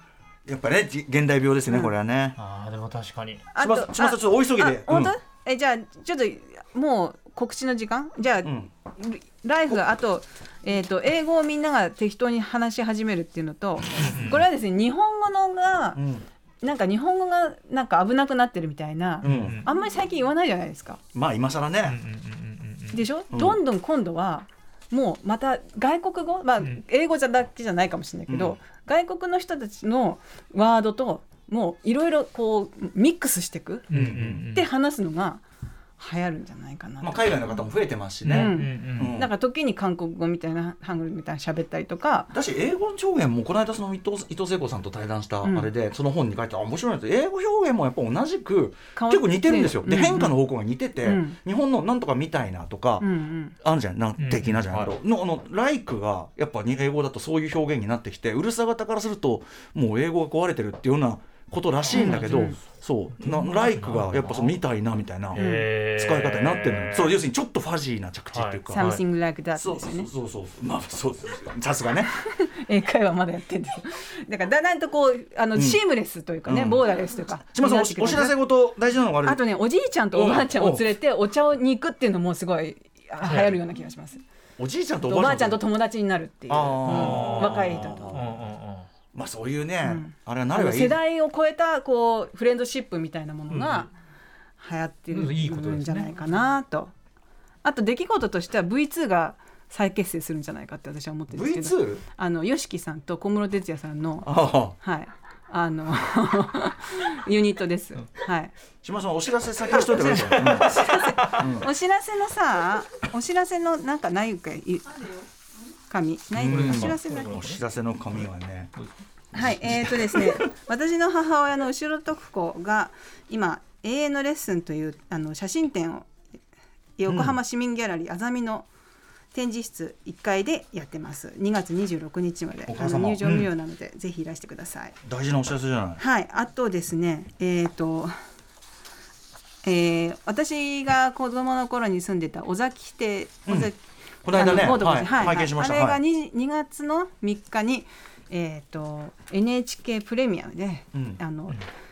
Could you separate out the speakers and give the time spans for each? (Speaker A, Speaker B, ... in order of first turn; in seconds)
Speaker A: 0.5-2.4, 3.6-5.1, 8.4-8.7, 15.9-16.2, 19.2-19.6, 21.1-22.0, 23.3-23.6, 28.3-28.6, 33.9-34.4, 37.0-39.3, 42.3-53.1, 53.6-69.0, 69.5-72.1, 75.5-75.8, 76.4-76.9, 77.5-79.4, 80.1-80.9, 84.6-85.6, 86.5-88.2, 89.1-91.0, 101.3-102.0, 104.2-104.8, 108.8-111.7, 116.3-118.7, 119.3-120.4, 127.1-127.4, 132.7-133.5, 135.0-136.0, 143.4-143.7, 144.2-146.0, 150.9-151.2
Speaker B: 2.4-3.4, 14.0-14.4, 19.2-19.6, 21.8-23.0, 33.9-34.7, 38.2-39.1, 54.2-54.9, 61.9-62.6, 63.2-64.6, 65.3-67.2, 68.3-69.0, 83.2-83.6, 86.8-88.9, 93.5-93.9, 95.1-96.2, 109.9-111.5, 116.3-117.6
Speaker C: 3.5-16.0, 16.6-21.0, 22.9-33.9, 34.5-35.4, 36.0-37.3, 38.2-42.3, 45.4-45.7, 49.0-50.4, 51.0-51.4, 53.0-53.5, 61.9-62.6, 65.3-65.7, 68.7-70.1, 72.1-78.4, 79.2-84.2, 85.1-88.2, 89.8-93.9, 94.6-96.9, 97.6-108.5, 109.7-115.2, 115.9-117.4, 119.3-126.1, 127.0-128.7, 129.3-135.0, 136.0-138.1, 139.6-143.8, 144.3-151.6